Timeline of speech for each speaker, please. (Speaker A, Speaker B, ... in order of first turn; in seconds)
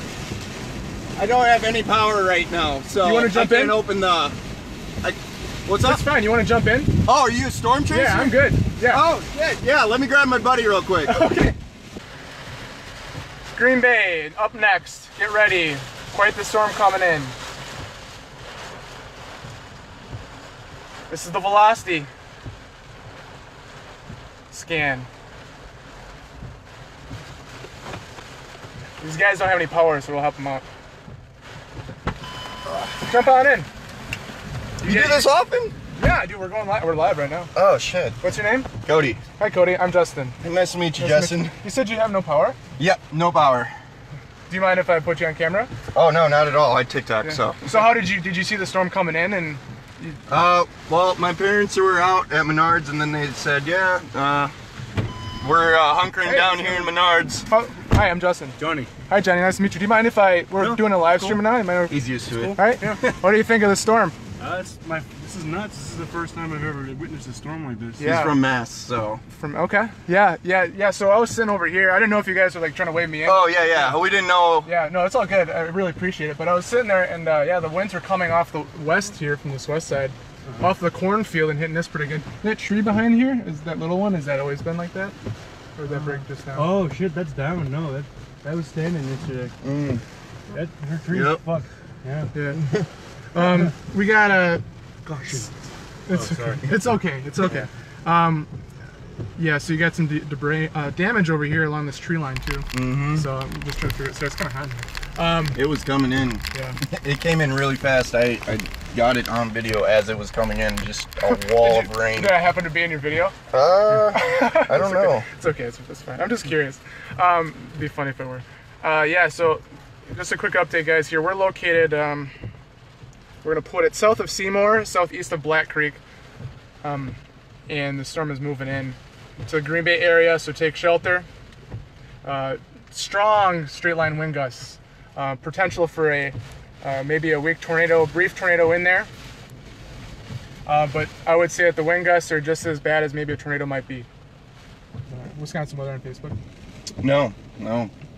Speaker A: 1.1-4.4, 5.0-6.0, 7.0-11.3, 34.8-35.7, 37.5-38.2, 38.8-39.2, 40.4-41.5, 42.8-43.7, 45.9-48.0, 50.3-54.5, 55.4-57.5, 61.9-63.1, 68.0-69.2, 73.2-74.7, 89.6-90.0, 91.1-91.4, 102.7-103.3, 105.5-112.3, 113.5-115.3, 147.0-147.9
Speaker B: 3.0-3.8, 5.8-6.9, 7.9-9.0, 11.1-11.6, 13.5-17.4, 21.1-22.1, 24.5-25.1, 29.0-30.6, 33.0-33.7, 34.8-35.3, 35.9-37.5, 38.2-38.7, 39.4-40.4, 41.0-42.6, 44.5-45.7, 47.2-50.2, 56.2-56.9, 57.5-62.0, 62.5-64.2, 68.0-68.4, 69.3-74.0, 74.6-85.2, 85.8-86.7, 92.3-92.6, 93.3-94.6, 96.1-98.5, 99.3-105.6, 106.5-106.8, 111.2-113.3, 114.0-122.3, 123.4-126.0, 126.8-131.3, 132.2-139.1, 140.7-144.1, 145.1-146.4
Speaker C: 58.6-58.9, 60.6-61.2, 62.2-63.0, 64.4-68.1, 85.9-89.5, 90.5-92.3, 95.0-95.6, 96.2-96.6